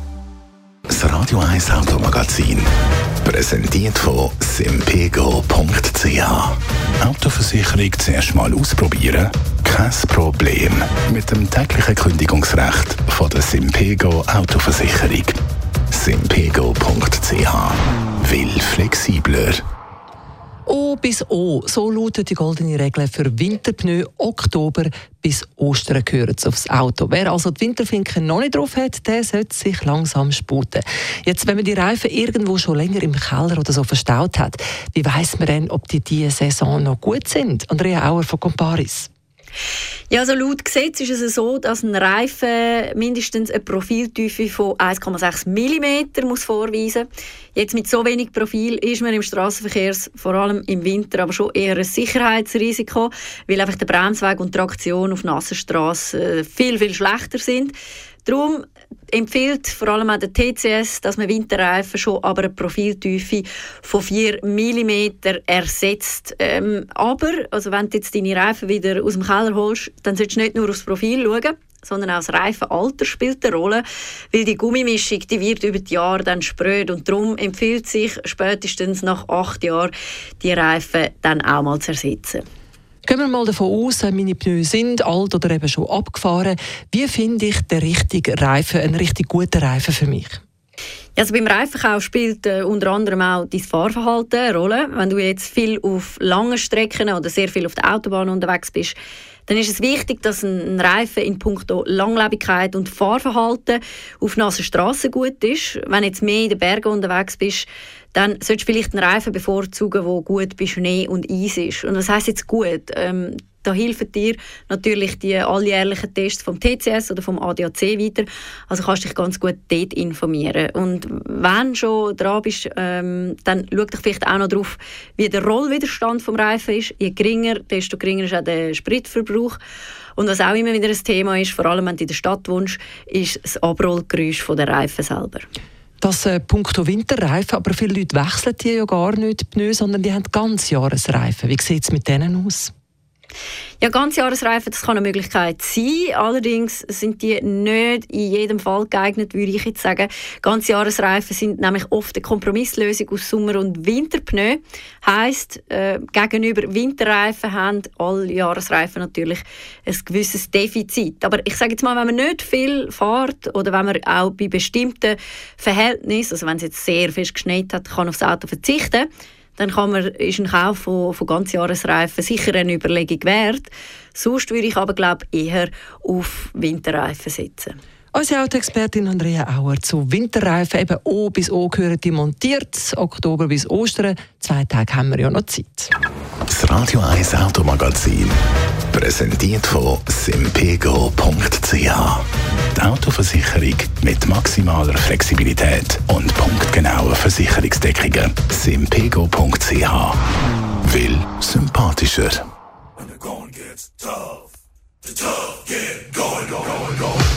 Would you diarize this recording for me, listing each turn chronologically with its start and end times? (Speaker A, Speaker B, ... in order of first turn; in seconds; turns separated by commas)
Speaker A: 0.9-2.7, Speaker A: 3.2-15.4, Speaker A: 15.9-19.6, Speaker B: 20.7-39.1, Speaker C: 40.1-57.7, Speaker C: 58.3-82.5, Speaker B: 83.0-90.4, Speaker C: 91.2-99.0, Speaker C: 99.5-129.6, Speaker C: 130.2-135.5, Speaker B: 136.0-142.7, Speaker C: 143.8-177.8, Speaker B: 178.1-185.9, Speaker A: 186.5-188.4, Speaker A: 188.9-200.2, Speaker A: 200.8-202.4, Speaker A: 203.4-203.7, Speaker A: 205.9-206.8